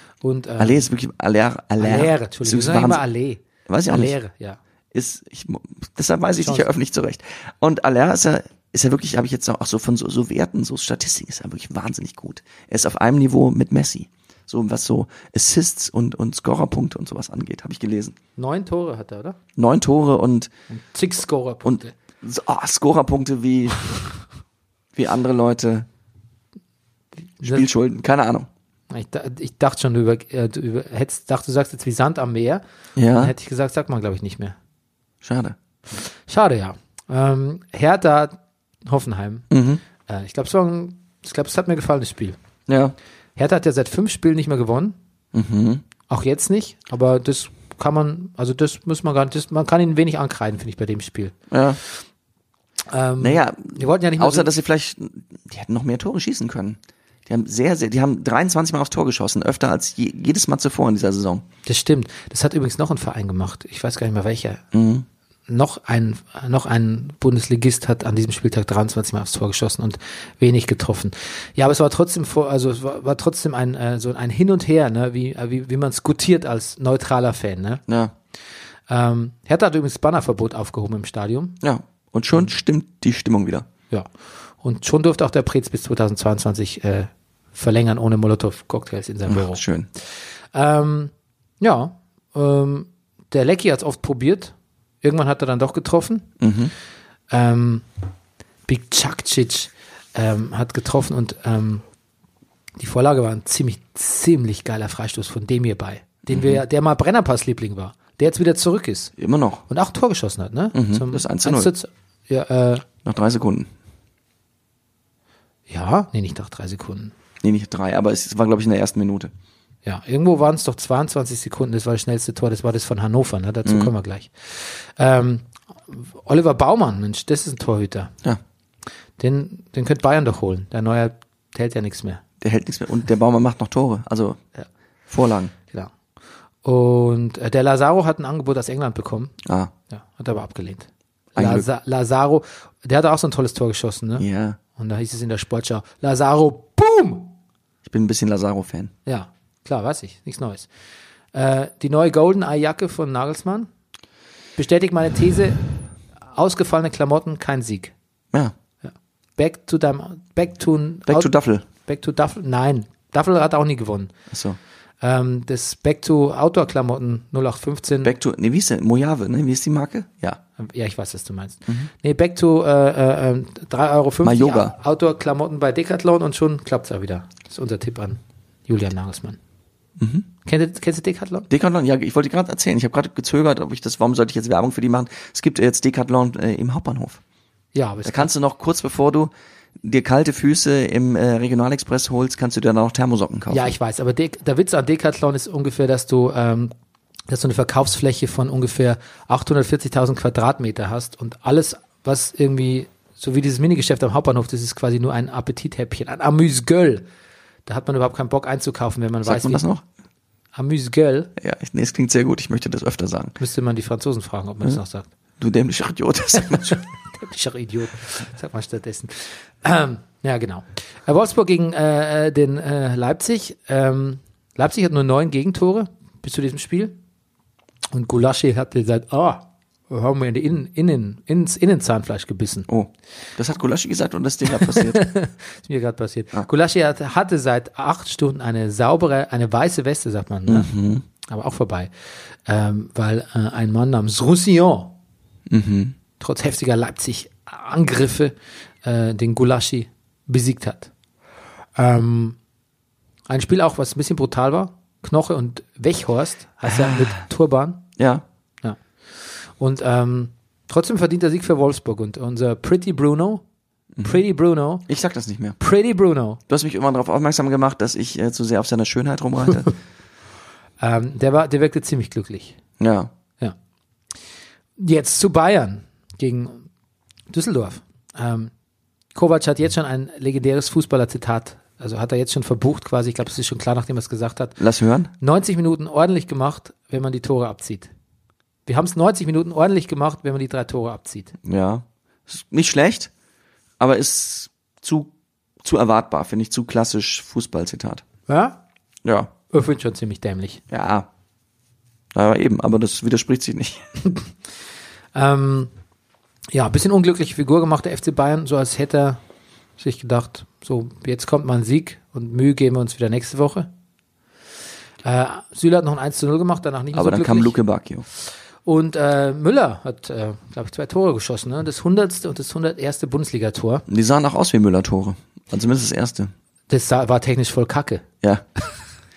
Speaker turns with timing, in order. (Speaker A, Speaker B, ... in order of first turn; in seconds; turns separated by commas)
Speaker A: 0.2-0.9, Speaker B: 0.6-3.0, Speaker A: 1.8-4.6, Speaker B: 3.7-4.2, Speaker B: 4.9-18.1, Speaker A: 6.4-6.7, Speaker A: 18.4-19.4, Speaker B: 19.6-20.5, Speaker A: 20.7-21.9, Speaker B: 21.6-24.0, Speaker B: 24.9-25.9, Speaker A: 27.4-27.6, Speaker B: 27.4-28.5, Speaker A: 28.9-34.5, Speaker B: 33.0-33.3, Speaker B: 35.2-35.6, Speaker A: 36.0-39.5, Speaker B: 39.5-39.8, Speaker A: 40.0-42.4, Speaker B: 42.7-42.9, Speaker A: 43.4-45.0, Speaker B: 45.3-45.8, Speaker A: 46.1-51.4, Speaker B: 51.5-51.8, Speaker A: 52.9-54.5, Speaker B: 53.2-61.4, Speaker A: 61.6-64.6, Speaker B: 64.7-65.0, Speaker A: 65.5-77.8, Speaker B: 77.9-78.1, Speaker A: 78.9-81.6, Speaker B: 81.6-83.7, Speaker A: 84.6-89.6, Speaker B: 89.2-89.9, Speaker A: 90.5-96.3, Speaker B: 96.4-96.7, Speaker A: 97.3-97.8, Speaker A: 98.7-101.8, Speaker A: 102.8-109.1, Speaker B: 106.3-106.6, Speaker B: 109.2-109.6, Speaker A: 109.7-112.9, Speaker B: 110.7-111.7, Speaker B: 113.0-113.7, Speaker A: 115.7-117.1, Speaker B: 117.4-119.3, Speaker A: 119.8-128.1, Speaker B: 123.6-123.9, Speaker A: 129.2-132.2, Speaker B: 132.4-134.4, Speaker B: 135.1-135.5, Speaker A: 136.6-139.3, Speaker B: 139.4-139.7, Speaker A: 139.9-144.2, Speaker B: 141.3-141.7, Speaker B: 144.2-144.6, Speaker A: 144.8-147.3, Speaker B: 147.8-148.9, Speaker A: 149.1-150.7, Speaker A: 151.3-153.7, Speaker A: 154.6-155.7, Speaker A: 156.2-157.9, Speaker A: 158.8-164.1, Speaker B: 161.1-161.6, Speaker B: 164.3-164.6, Speaker A: 165.0-168.1, Speaker B: 168.0-170.4, Speaker A: 170.6-179.4, Speaker B: 174.2-174.7, Speaker B: 180.0-180.3, Speaker A: 180.4-181.5, Speaker B: 181.5-187.2, Speaker A: 187.7-188.3, Speaker B: 188.0-193.7, Speaker A: 193.5-196.7, Speaker A: 197.3-207.1, Speaker A: 207.7-209.6, Speaker B: 209.2-209.8, Speaker A: 210.5-211.3, Speaker B: 211.4-213.4, Speaker A: 213.4-215.1, Speaker B: 215.4-216.8, Speaker A: 216.5-227.0, Speaker A: 227.9-232.7, Speaker B: 232.7-235.0, Speaker A: 234.6-240.7, Speaker B: 240.5-241.0, Speaker A: 241.3-241.9, Speaker A: 242.4-244.9, Speaker B: 245.5-245.9, Speaker A: 246.2-250.9, Speaker A: 251.8-252.4, Speaker A: 253.3-257.9, Speaker B: 256.7-257.2, Speaker B: 258.0-258.2, Speaker A: 258.6-263.4, Speaker B: 263.9-264.2, Speaker A: 264.0-264.9, Speaker B: 264.9-265.6, Speaker A: 265.6-266.4, Speaker B: 266.5-269.7, Speaker A: 270.8-272.6, Speaker B: 272.8-273.1, Speaker A: 274.8-276.7, Speaker A: 277.3-278.5, Speaker A: 279.1-284.6, Speaker B: 284.6-285.1, Speaker A: 285.2-287.9, Speaker A: 288.6-291.4, Speaker B: 291.4-293.1, Speaker B: 293.8-295.1, Speaker B: 295.6-298.0, Speaker A: 298.3-298.6, Speaker B: 299.0-299.3, Speaker A: 299.5-300.6, Speaker B: 300.7-301.1, Speaker B: 302.1-303.8, Speaker A: 305.1-305.7, Speaker A: 306.5-309.2, Speaker A: 309.8-313.7, Speaker A: 315.0-317.6, Speaker B: 316.9-318.1, Speaker A: 318.6-323.8, Speaker B: 323.9-326.3, Speaker A: 326.7-328.1